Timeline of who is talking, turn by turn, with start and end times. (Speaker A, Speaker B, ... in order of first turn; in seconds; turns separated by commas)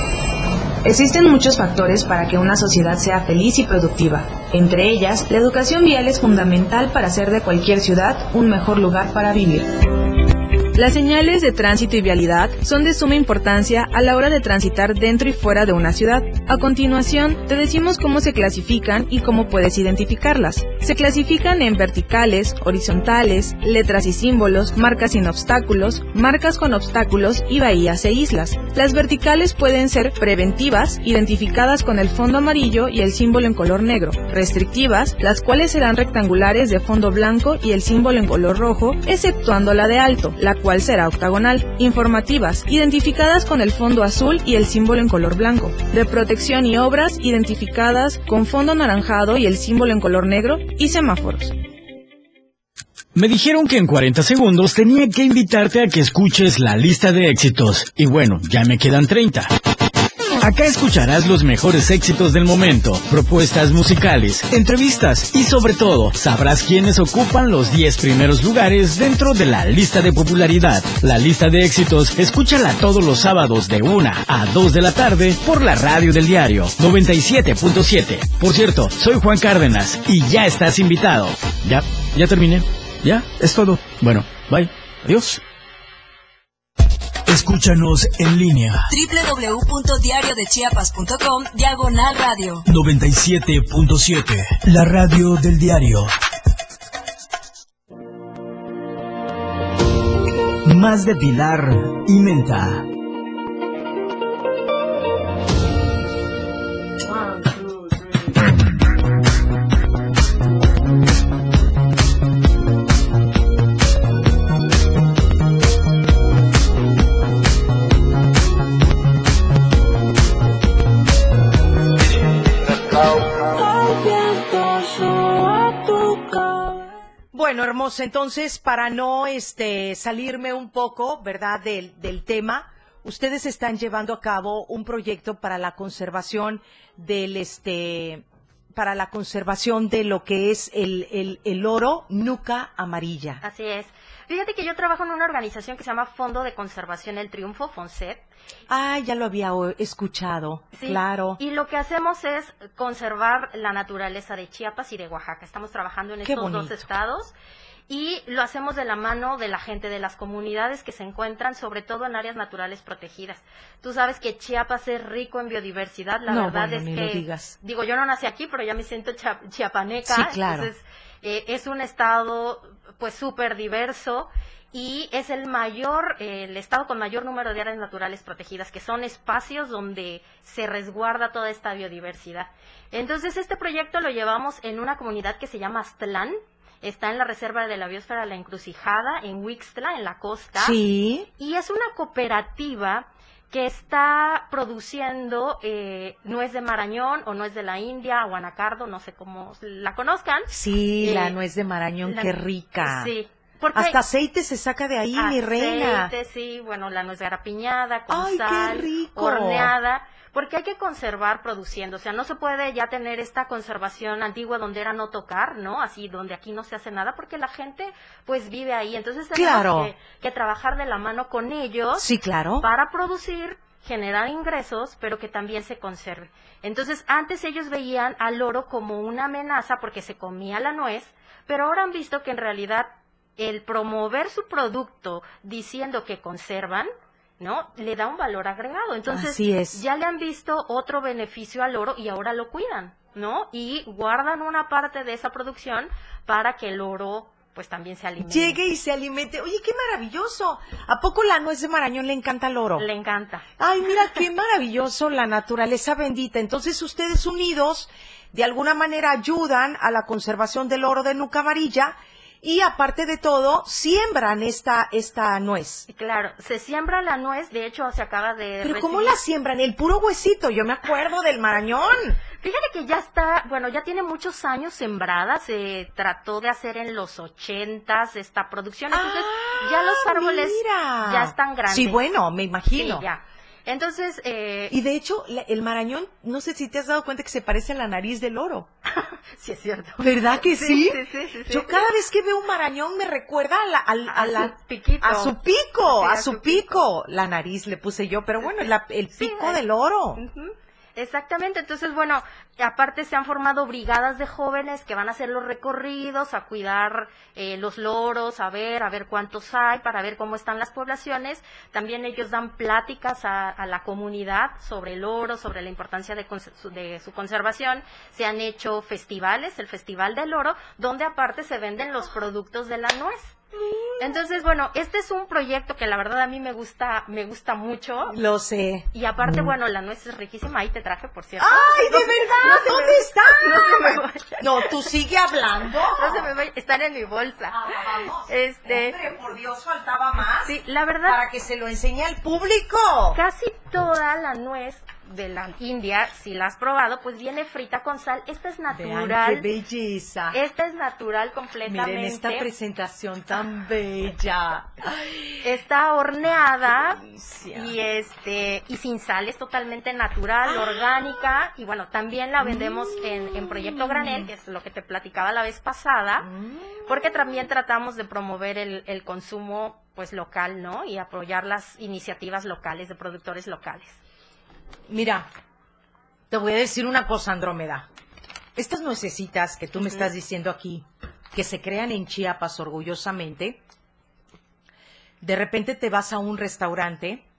Speaker A: 0.8-9.7, Speaker A: 10.7-51.5, Speaker B: 53.1-59.5, Speaker B: 60.4-85.4, Speaker B: 87.3-88.9, Speaker C: 88.9-92.6, Speaker B: 92.7-96.1, Speaker B: 100.6-102.8, Speaker D: 127.3-138.2, Speaker D: 138.7-143.4, Speaker E: 143.4-148.2, Speaker D: 148.7-151.4, Speaker E: 150.7-157.3, Speaker D: 156.2-156.8, Speaker E: 157.9-190.8, Speaker D: 166.3-167.5, Speaker D: 170.1-170.7, Speaker D: 190.6-191.3, Speaker E: 191.4-201.4, Speaker D: 200.5-203.1, Speaker E: 202.0-204.0, Speaker D: 203.7-206.1, Speaker E: 205.2-222.1, Speaker D: 208.1-209.7, Speaker D: 219.3-219.9, Speaker D: 222.0-222.6, Speaker E: 222.6-248.6, Speaker D: 239.1-239.8, Speaker D: 248.2-252.8, Speaker E: 252.8-253.4, Speaker D: 253.6-265.9, Speaker E: 265.9-269.2, Speaker D: 268.6-272.2, Speaker E: 272.4-282.0, Speaker D: 278.9-283.0, Speaker E: 282.7-284.8, Speaker D: 284.7-288.7, Speaker E: 288.9-291.8, Speaker D: 290.0-300.2, Speaker E: 294.1-296.8, Speaker E: 299.1-299.6, Speaker E: 300.1-323.4, Speaker E: 324.0-328.1, Speaker D: 328.1-329.5, Speaker E: 328.9-334.7, Speaker D: 331.4-336.3, Speaker E: 335.9-337.6, Speaker D: 337.5-340.5, Speaker E: 338.3-339.0, Speaker E: 340.4-341.2, Speaker D: 341.0-343.2, Speaker E: 343.1-349.5, Speaker D: 348.7-350.4, Speaker E: 350.3-352.5, Speaker D: 351.6-355.1, Speaker E: 355.4-366.3, Speaker D: 357.1-357.7, Speaker D: 360.5-360.8, Speaker D: 362.4-364.3, Speaker D: 366.2-366.8, Speaker E: 366.9-374.0, Speaker D: 374.9-375.3, Speaker D: 376.3-377.9, Speaker D: 378.6-383.6, Speaker E: 379.8-380.1, Speaker D: 385.2-387.2